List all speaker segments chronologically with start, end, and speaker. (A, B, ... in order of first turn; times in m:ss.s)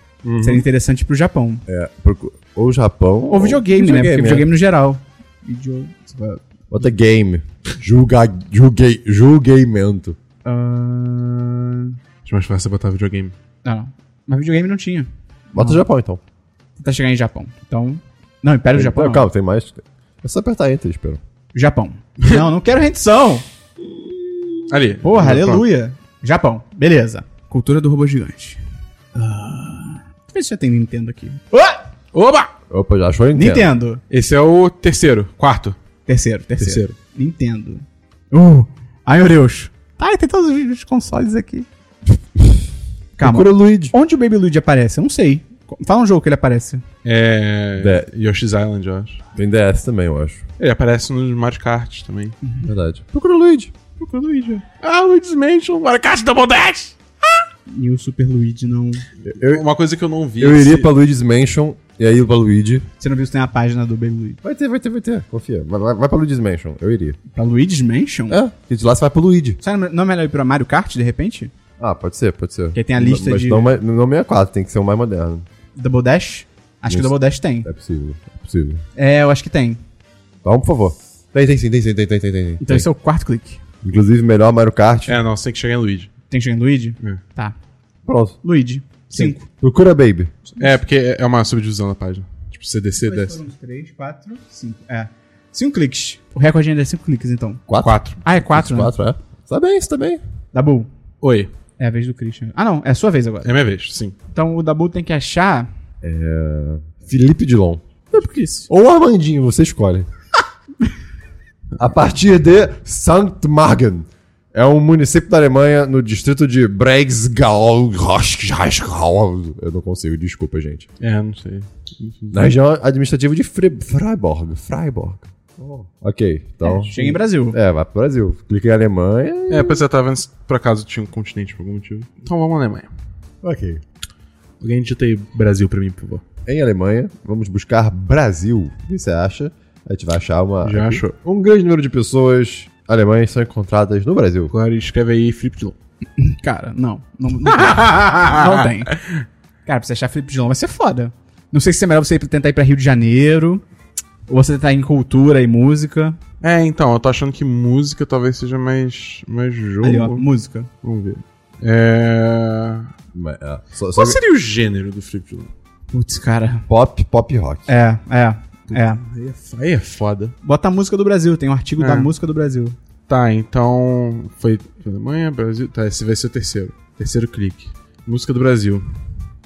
0:00.2-0:00.6 A
0:00.4-0:01.6 B
0:01.7-0:04.5 C
0:03.3-0:06.4 B
0:06.7-0:10.2 C
0:10.4-0:12.0 B
0:12.2-0:13.3 A
0:13.6-0:15.8 B
0:15.5-0:16.2 C
0:16.8-0:19.3 B
0:18.7-0:21.2 C
0:21.5-0:23.4 B
0:24.7-0:25.7 A
0:25.0-0:28.6 B
0:29.2-0:31.8 B
0:32.1-0:32.5 A
0:32.7-0:33.7 C
0:33.3-0:34.0 B
0:34.1-0:35.8 A
0:36.1-0:41.7 B
0:36.6-0:36.9 A
0:43.2-0:46.8 B
0:43.2-0:43.9 C
0:47.0-0:49.2 A
0:47.8-0:48.1 C
0:49.3-0:50.4 C
0:50.6-0:52.4 A
0:52.6-0:53.7 C
0:54.0-0:57.0 A
0:57.7-0:59.0 B
0:59.2-1:00.9 A
0:59.3-0:59.6 C
1:00.4-1:02.9 C
1:03.0-1:04.4 B
1:04.4-1:07.2 C
1:07.3-1:08.4 B
1:08.3-1:09.6 C
1:09.6-1:11.5 B
1:11.8-1:15.4 C
1:12.7-1:13.7 B
1:15.8-1:17.7 B
1:16.8-1:18.8 C
1:19.0-1:19.8 B
1:20.4-1:22.8 C
1:22.6-1:23.6 B
1:23.8-1:25.2 C
1:25.1-1:26.1 A
1:26.3-1:27.5 B
1:28.0-1:28.4 C
1:28.4-1:29.4 B
1:29.1-1:29.4 A
1:29.6-1:30.3 C
1:30.5-1:30.8 B
1:30.6-1:33.4 A
1:33.0-1:37.6 B
1:37.7-1:40.2 C
1:37.8-1:38.2 A
1:38.2-1:38.9 B
1:40.5-1:40.9 B
1:41.2-1:41.5 A
1:41.8-1:43.5 B
1:43.4-1:44.1 A
1:44.3-1:45.7 B
1:46.0-1:47.8 C
1:48.2-1:48.6 B
1:48.7-1:50.1 C
1:51.8-2:00.8 C
2:01.0-2:02.4 A
2:02.3-2:09.8 C
2:06.6-2:07.6 B
2:09.5-2:12.9 A
2:13.4-2:13.8 C
2:14.6-2:16.2 A
2:16.4-2:24.5 C
2:20.6-2:21.2 A
2:24.5-2:25.8 A
2:26.2-2:28.9 B
2:27.5-2:29.2 A
2:29.6-2:33.6 B
2:34.3-2:36.2 B
2:36.4-2:40.2 A
2:39.8-2:40.7 B
2:40.8-2:42.9 A
2:43.1-2:44.2 C
2:43.9-2:45.5 A
2:45.9-2:46.6 B
2:46.7-2:47.7 C
2:47.7-2:49.0 B
2:48.7-2:50.3 A
2:50.4-2:52.8 B
2:51.8-2:52.1 A
2:53.1-2:58.8 A